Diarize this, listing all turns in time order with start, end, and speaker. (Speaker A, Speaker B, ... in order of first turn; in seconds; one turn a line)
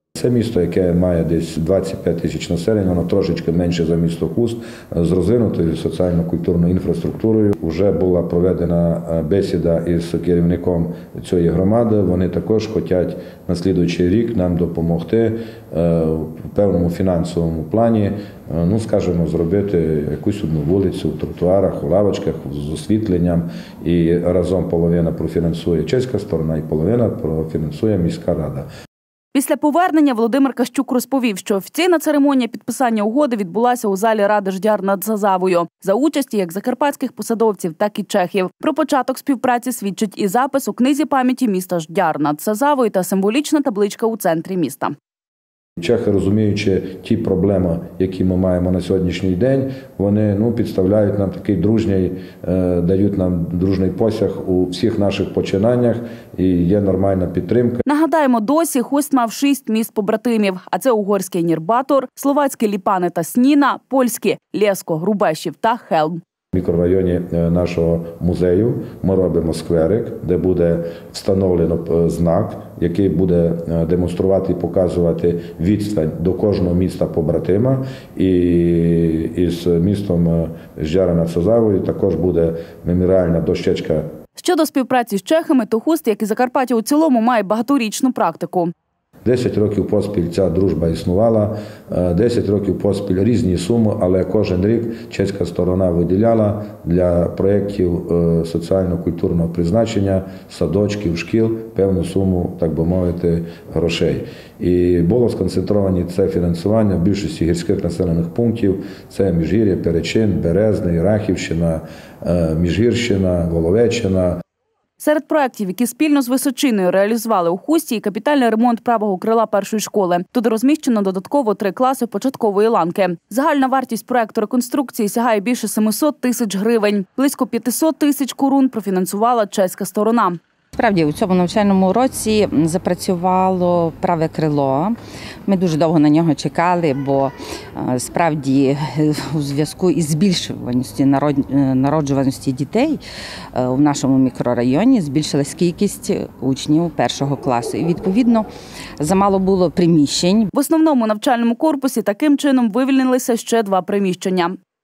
Speaker A: 0.1-28.6
Speaker B: 29.3-44.9
Speaker A: 45.8-57.8
Speaker B: 57.9-66.2
Speaker A: 66.5-84.0
Speaker B: 84.4-88.7
Speaker A: 89.2-114.4
Speaker B: 115.0-130.4
Speaker C: 130.8-143.0
Speaker C: 143.5-148.5
Speaker C: 149.0-150.5
Speaker B: 150.5-154.6